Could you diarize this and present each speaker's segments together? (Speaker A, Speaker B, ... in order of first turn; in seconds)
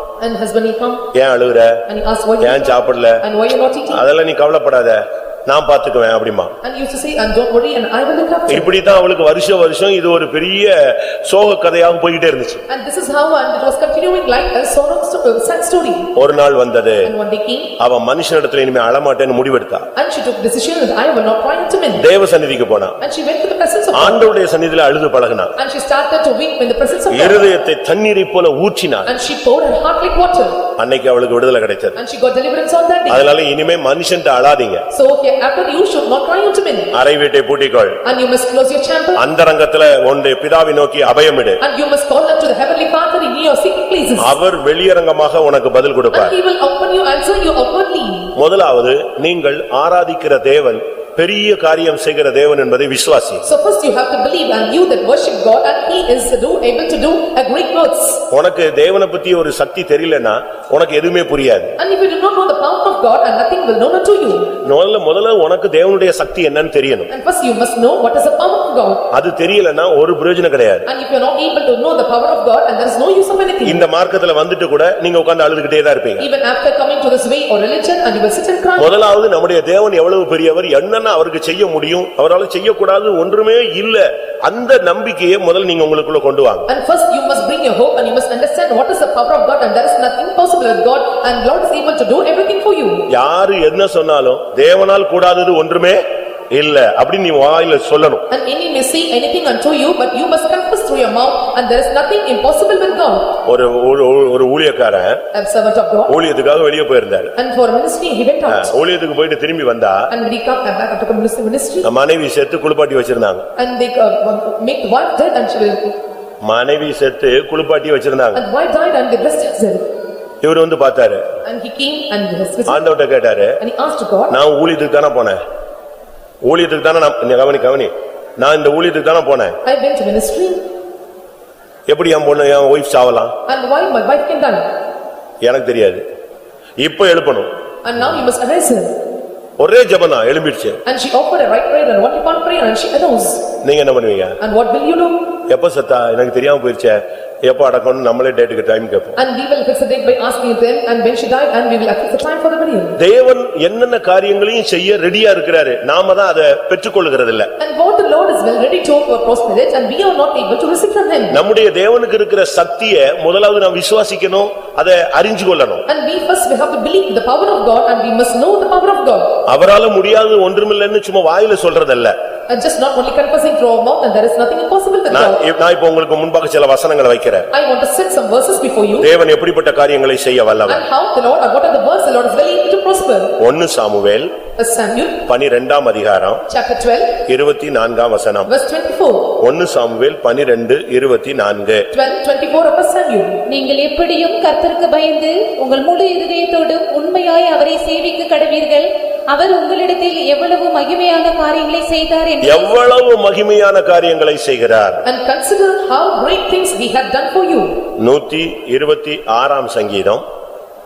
Speaker A: 0.2-1.1, 1.9-4.0, 6.6-8.7, 12.7-16.1, 17.0-17.7, 19.9-22.1, 23.0-24.2, 25.6-27.5, 29.1-30.6, 31.9-33.3, 34.9-36.9, 38.0-39.2, 41.6-44.4, 46.1-48.3, 53.4-58.3, 61.8-64.6, 67.1-69.1, 70.8-73.9, 76.2-78.9, 86.7-93.1, 98.3-103.4, 105.3-106.2, 107.3-108.7, 110.1-111.9, 113.6-116.0, 118.3-119.8, 121.4-122.8, 123.6-124.4, 129.6-130.6, 133.5-134.7, 137.8-138.9, 140.8-143.5, 144.4-145.2, 149.2-153.0, 157.6-161.4, 165.9-169.4, 172.5-175.4, 177.5-179.1, 180.7-183.3, 184.6-185.2, 186.4-187.2, 188.4-189.4, 191.9-193.4, 205.0-207.8
Speaker B: 1.1-1.8, 2.4-3.2, 3.9-6.5, 8.5-12.6, 16.1-17.1, 17.8-19.9, 21.9-23.0, 23.9-25.5, 27.1-29.1, 30.8-32.0, 33.1-34.8, 36.9-38.0, 39.1-41.6, 44.2-46.4, 48.4-53.4, 58.3-61.7, 64.6-67.1, 69.1-70.9, 73.6-76.3, 78.8-86.7, 93.1-98.2, 103.4-105.2, 106.1-107.3, 108.5-110.1, 111.8-113.5, 116.4-118.4, 120.4-121.2, 122.7-123.5, 124.3-125.4, 126.5-129.6, 131.9-133.3, 135.4-136.0, 136.8-137.5, 139.6-140.8, 143.6-144.4, 145.5-149.2, 153.0-157.5, 161.3-165.8, 169.5-172.1, 175.1-177.5, 178.9-180.8, 183.4-184.3, 185.2-186.4, 187.2-188.5, 189.4-191.8, 202.4-205.0, 208.0-210.2
Speaker C: 193.5-202.7